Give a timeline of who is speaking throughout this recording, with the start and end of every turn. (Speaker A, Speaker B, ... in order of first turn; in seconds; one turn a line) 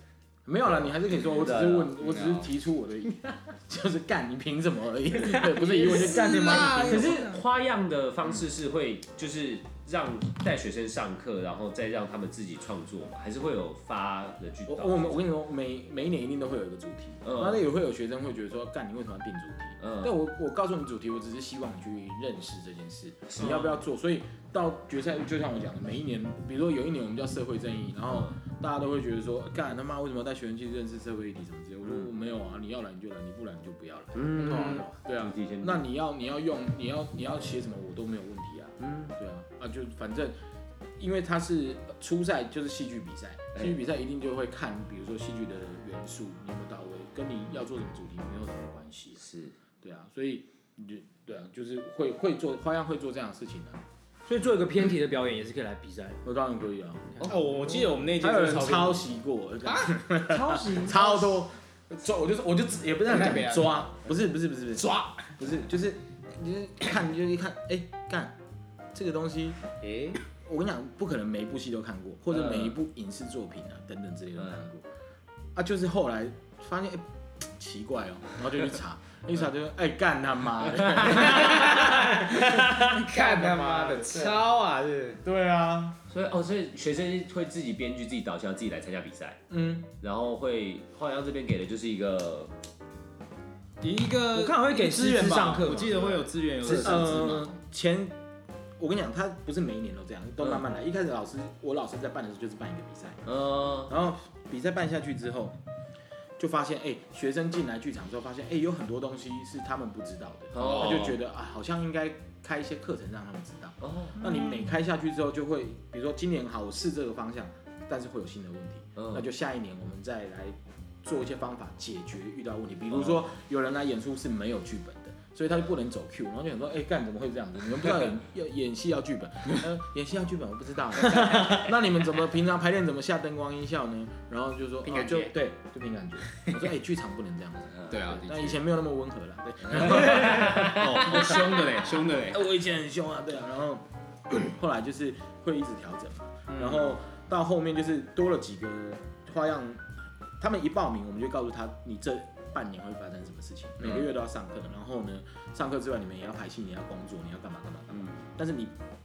Speaker A: 0.5-7.2
Speaker B: 1.1-2.0
Speaker C: 2.0-2.5
Speaker D: 5.4-7.4
Speaker C: 5.7-7.3
Speaker B: 6.8-15.2
Speaker A: 14.7-40.4
Speaker B: 17.2-17.6
Speaker B: 19.8-20.1
Speaker B: 23.3-23.8
Speaker B: 34.1-35.8
Speaker C: 34.5-34.9
Speaker B: 38.8-39.1
Speaker A: 41.0-49.2
Speaker B: 49.2-49.5
Speaker A: 49.8-53.8
Speaker D: 54.3-56.2
Speaker A: 56.2-57.4
Speaker D: 57.1-57.9
Speaker C: 57.2-59.1
Speaker A: 58.1-68.4
Speaker C: 59.6-60.0
Speaker D: 60.3-61.4
Speaker C: 63.1-63.9
Speaker C: 64.8-65.3
Speaker A: 68.9-69.6
Speaker C: 69.8-70.2
Speaker A: 70.3-74.8
Speaker A: 75.5-84.4
Speaker B: 81.1-81.8
Speaker C: 81.1-85.2
Speaker A: 85.2-86.0
Speaker B: 86.1-89.4
Speaker A: 89.5-89.9
Speaker B: 90.0-92.5
Speaker C: 93.8-97.5
Speaker D: 94.3-97.1
Speaker A: 96.8-98.2
Speaker A: 98.8-103.2
Speaker B: 103.3-103.9
Speaker A: 103.9-105.6
Speaker A: 106.4-141.6
Speaker B: 110.5-111.2
Speaker C: 110.6-111.1
Speaker B: 113.8-114.2
Speaker C: 114.2-114.7
Speaker B: 119.0-119.2
Speaker D: 131.2-131.6
Speaker C: 134.8-135.3
Speaker C: 136.3-136.6
Speaker C: 137.9-138.6
Speaker C: 139.7-142.5
Speaker B: 139.9-141.0
Speaker A: 142.2-158.8
Speaker C: 146.5-146.9
Speaker C: 153.8-154.1
Speaker C: 157.9-158.2